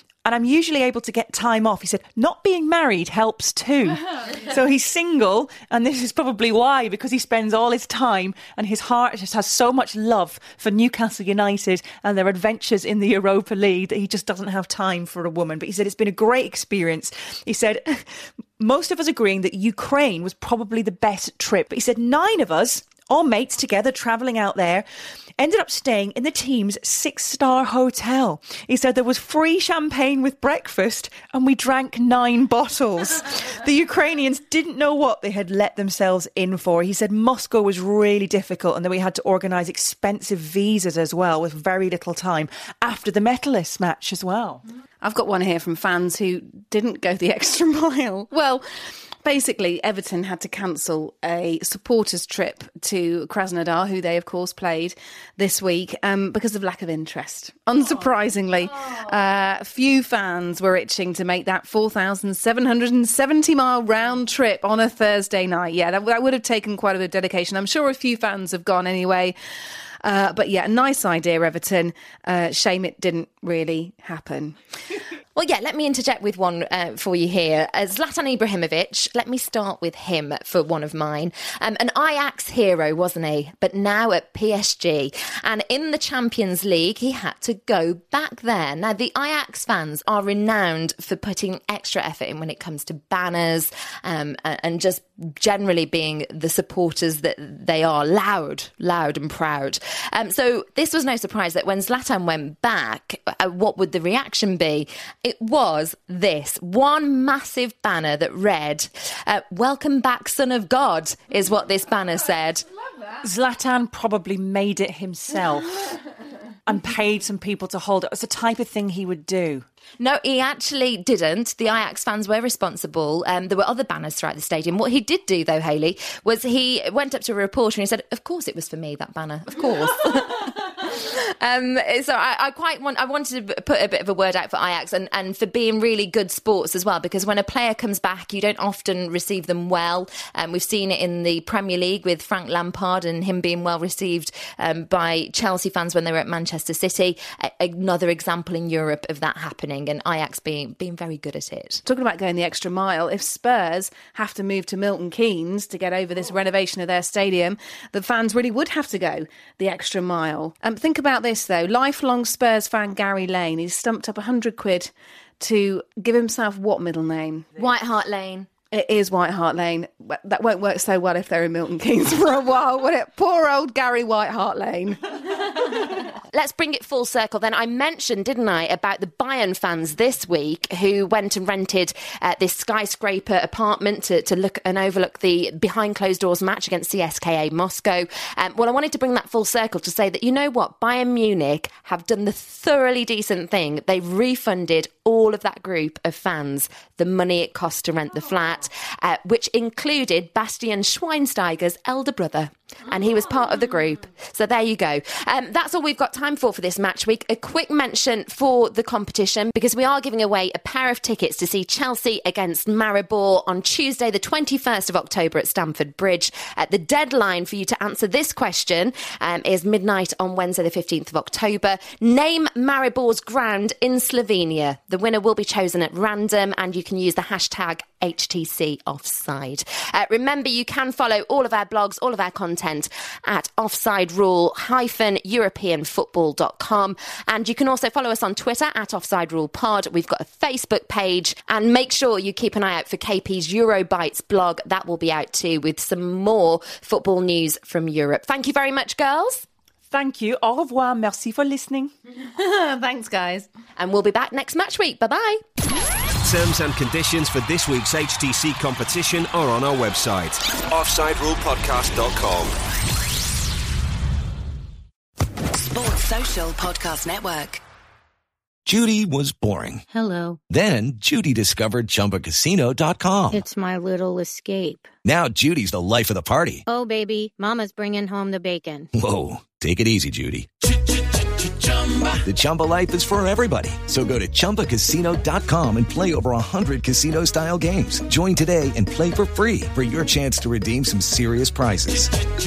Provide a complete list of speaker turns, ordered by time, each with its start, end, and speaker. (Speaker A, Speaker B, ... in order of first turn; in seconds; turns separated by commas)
Speaker A: 0.2-24.9, Speaker A: 25.4-44.6, Speaker B: 45.0-69.3, Speaker B: 70.0-74.6, Speaker C: 75.3-112.7, Speaker A: 113.2-116.0, Speaker A: 116.7-119.6, Speaker C: 120.0-151.8, Speaker B: 151.8-167.5, Speaker C: 167.6-168.5, Speaker B: 168.7-175.1, Speaker C: 176.3-249.4, Speaker A: 249.9-251.9, Speaker B: 252.2-253.5, Speaker C: 253.8-255.4, Speaker D: 256.2-262.5, Speaker E: 265.5-267.6, Speaker F: 268.6-269.8, Speaker G: 269.9-270.4, Speaker F: 270.5-273.4, Speaker G: 273.3-274.9, Speaker F: 275.1-276.6, Speaker G: 276.6-278.9, Speaker F: 278.9-280.5, Speaker F: 282.2-292.1